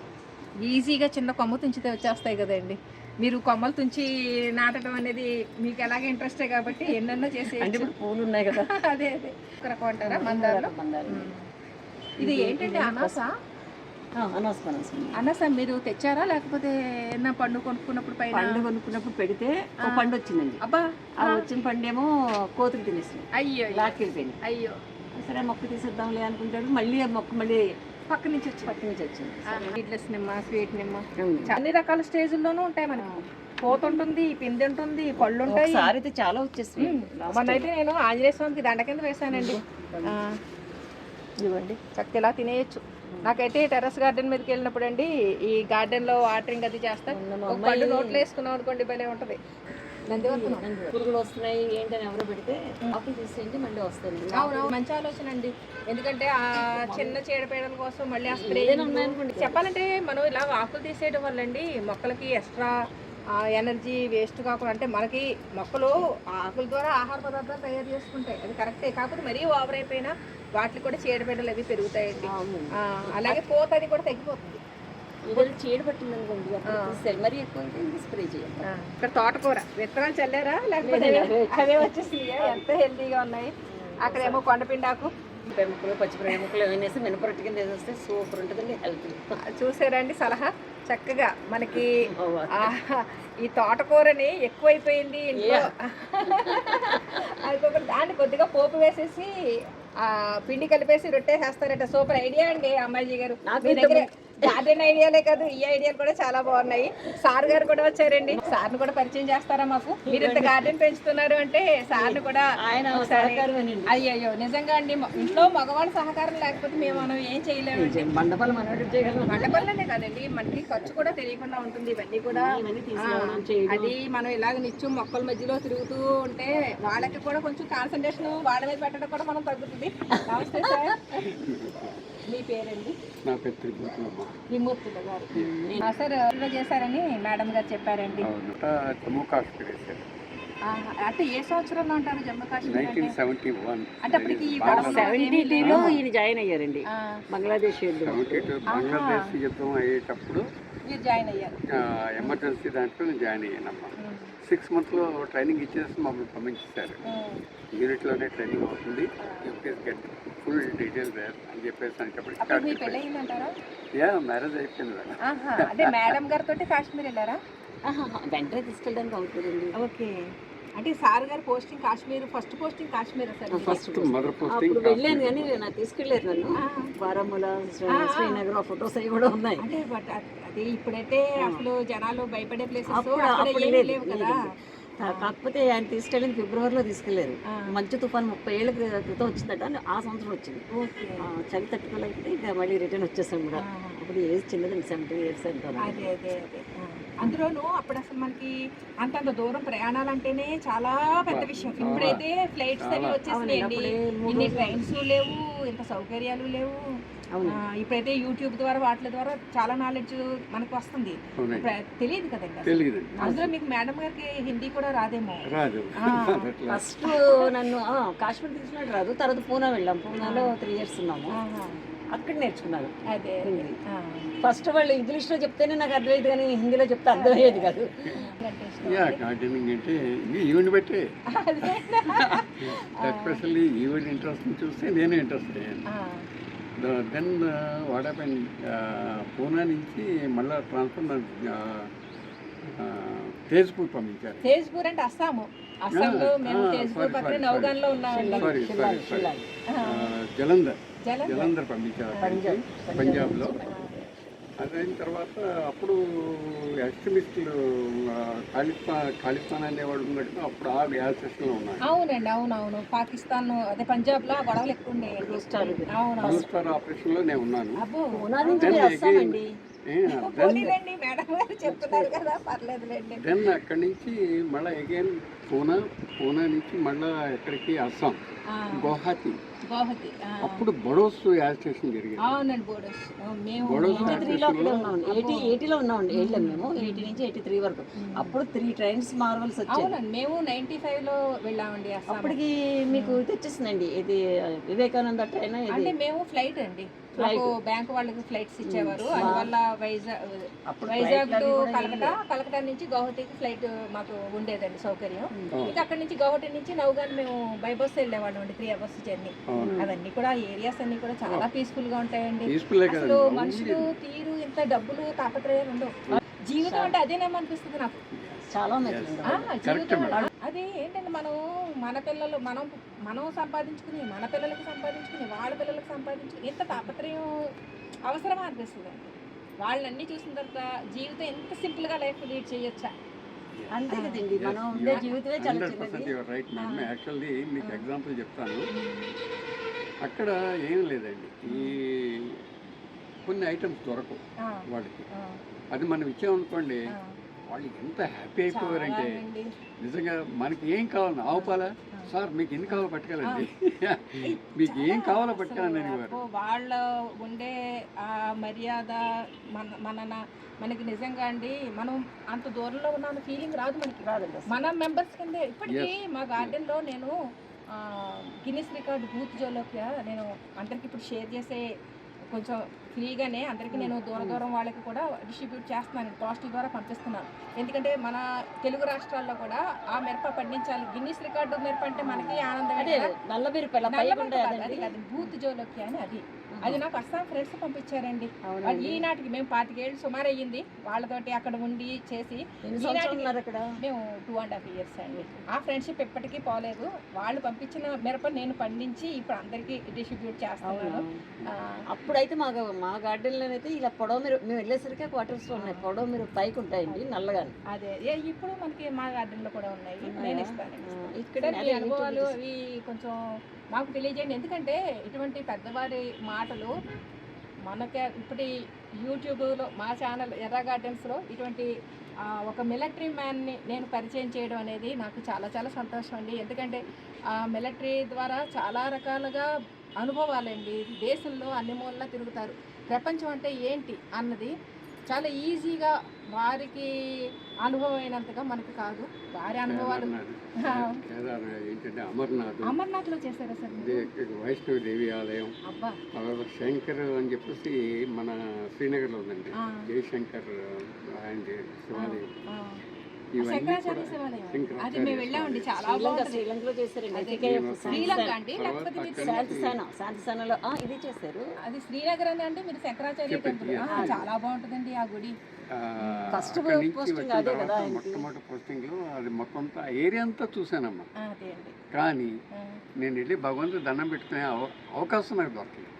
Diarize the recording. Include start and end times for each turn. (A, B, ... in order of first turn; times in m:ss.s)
0:00.6-0:07.9 A
0:07.5-0:08.7 B
0:08.7-0:11.4 A
0:10.0-0:11.3 B
0:12.2-0:13.3 A
0:12.2-0:13.2 B
0:14.2-0:15.2 B
0:15.2-0:18.6 A
0:18.3-0:20.6 B
0:20.6-0:21.5 A
0:21.2-0:24.4 B
0:23.3-0:24.8 A
0:25.2-0:27.7 B
0:28.1-0:28.8 A
0:28.6-0:29.8 B
0:29.5-0:35.9 A
0:31.2-0:31.5 B
0:33.0-0:34.0 B
0:35.4-0:37.7 B
0:36.8-0:40.4 A
0:39.3-0:40.2 B
0:41.4-0:49.4 A
0:47.1-0:48.2 B
0:50.1-0:50.6 A
0:50.1-0:54.7 B
0:54.3-1:02.7 A
0:56.7-0:57.2 B
0:58.3-0:59.6 B
1:03.3-1:14.6 A
1:12.2-1:13.4 B
1:15.2-1:18.7 B
1:16.6-1:17.0 A
1:18.6-1:25.1 A
1:20.8-1:22.6 B
1:23.7-1:24.4 B
1:25.5-1:29.4 B
1:29.4-1:39.3 A
1:31.7-1:32.7 B
1:35.4-1:35.7 B
1:36.3-1:37.3 B
1:40.0-1:58.0 A
1:43.4-1:44.6 B
1:50.1-1:50.7 B
1:52.0-1:54.0 B
1:55.1-1:55.4 B
1:56.7-1:57.1 B
1:57.7-1:59.7 B
1:59.3-2:11.2 A
2:02.3-2:03.9 B
2:10.1-2:10.9 B
2:11.2-2:12.0 C
2:12.2-2:13.0 A
2:13.2-2:14.4 C
2:14.5-2:18.3 A
2:15.3-2:15.9 B
2:18.2-2:20.0 C
2:20.7-2:23.1 A
2:22.6-2:26.0 C
2:24.0-2:25.9 A
2:24.7-2:28.5 B
2:26.9-2:27.2 A
2:28.0-2:30.4 C
2:28.7-2:29.3 A
2:30.9-2:31.6 A
2:31.7-2:37.0 C
2:34.0-2:34.3 A
2:37.0-2:37.4 A
2:37.7-2:43.0 C
2:39.2-2:39.5 A
2:42.4-2:43.5 A
2:44.0-2:46.1 C
2:45.2-2:47.4 A
2:47.8-2:49.7 B
2:49.7-2:50.2 A
2:50.8-2:53.8 A
2:53.5-2:59.6 B
2:53.6-2:55.6 C
2:56.6-2:56.9 A
2:57.9-2:58.4 A
2:59.6-3:04.4 A
3:02.9-3:04.4 B
3:05.0-3:10.7 B
3:05.0-3:05.3 A
3:10.7-3:11.2 A
3:11.2-3:16.2 B
3:13.6-3:14.0 A
3:15.8-3:26.8 A
3:21.3-3:22.2 C
3:21.6-3:22.2 B
3:22.8-3:23.2 C
3:23.3-3:24.8 B
3:27.3-3:27.6 B
3:27.4-3:35.5 A
3:31.4-3:31.7 C
3:32.6-3:33.3 C
3:33.2-3:33.5 B
3:35.5-3:36.9 C
3:36.0-3:36.5 A
3:36.7-3:41.4 B
3:37.0-3:37.5 A
3:40.2-3:40.5 A
3:41.4-3:41.8 A
3:42.1-3:43.8 B
3:43.1-3:44.3 A
3:44.4-3:47.9 B
3:47.1-3:49.2 A
3:48.8-3:51.1 C
3:51.3-3:53.4 A
3:51.6-3:55.8 C
3:55.9-3:56.2 A
3:56.8-4:01.9 C
4:02.6-4:04.4 C
4:04.4-4:08.5 A
4:05.9-4:13.5 C
4:08.1-4:09.5 B
4:09.7-4:10.1 A
4:11.0-4:11.5 A
4:12.2-4:13.8 B
4:13.6-4:14.0 A
4:14.6-4:21.8 C
4:21.8-4:26.4 A
4:25.1-4:26.3 B
4:26.2-4:27.8 C
4:27.8-4:28.9 A
4:28.1-4:29.5 B
4:28.4-4:30.7 C
4:30.1-4:33.2 A
4:31.6-4:32.1 B
4:33.2-4:38.2 C
4:38.5-4:38.9 A
4:38.7-4:39.4 C
4:39.7-4:40.6 A
4:40.4-4:42.3 C
4:42.2-4:44.4 A
4:43.6-4:44.9 C
4:43.9-4:50.0 B
4:45.0-4:45.6 A
4:46.1-4:47.2 A
4:48.0-4:48.3 A
4:49.7-4:52.4 A
4:52.1-4:55.9 B
4:52.9-4:53.2 A
4:55.7-5:15.9 A
4:57.2-4:57.5 B
4:58.6-4:59.5 B
5:00.7-5:02.2 B
5:05.5-5:05.8 C
5:09.5-5:09.8 C
5:09.6-5:09.9 B
5:12.4-5:13.9 C
5:16.4-5:18.0 A
5:16.6-5:16.9 B
5:18.1-5:20.2 C
5:18.5-5:19.5 B
5:19.3-5:27.3 A
5:28.1-5:32.9 A
5:33.7-5:36.1 B
5:33.9-5:34.2 A
5:34.3-5:38.7 C
5:34.8-5:35.1 A
5:36.6-5:36.9 A
5:38.7-5:39.1 A
5:40.0-5:42.4 C
5:41.5-5:41.8 A
5:43.2-5:45.1 C
5:44.4-5:45.4 A
5:45.7-5:46.9 C
5:46.9-5:47.2 A
5:47.5-5:49.2 C
5:48.5-5:49.5 A
5:49.8-5:56.2 C
5:51.3-5:52.1 A
5:52.7-5:53.4 A
5:54.2-6:07.1 A
6:04.0-6:04.5 B
6:05.7-6:06.5 C
6:07.7-6:11.6 A
6:12.3-6:23.1 A
6:13.7-6:14.4 B
6:22.0-6:24.9 B
6:23.9-6:41.8 A
6:26.6-6:26.8 B
6:28.4-6:29.0 B
6:32.6-6:33.7 B
6:35.1-6:35.4 B
6:40.6-6:41.2 B
6:41.9-6:47.5 B
6:45.6-6:45.9 A
6:47.7-6:53.2 A
6:50.0-6:52.3 B
6:53.7-6:56.7 A
6:57.7-6:58.5 A
6:59.0-7:01.7 A
7:02.2-7:09.5 A
7:10.0-7:14.5 A
7:15.1-7:16.9 A
7:17.6-7:20.1 A
7:19.7-7:22.7 C
7:20.6-7:21.0 A
7:22.6-7:24.1 A
7:23.7-7:25.5 C
7:25.6-7:26.0 A
7:26.1-7:32.4 C
7:29.6-7:29.9 A
7:31.9-7:32.8 A
7:33.4-7:35.7 C
7:33.4-7:36.4 A
7:35.8-7:38.3 B
7:37.1-7:39.5 A
7:37.4-7:39.8 C
7:39.2-7:41.5 B
7:41.6-7:45.4 A
7:43.3-7:44.3 C
7:43.9-7:44.2 B
7:45.7-7:51.1 C
7:46.0-7:46.4 A
7:46.3-7:48.2 B
7:51.2-7:51.7 A
7:51.9-7:52.3 C
7:52.5-7:52.8 A
7:53.0-7:55.9 C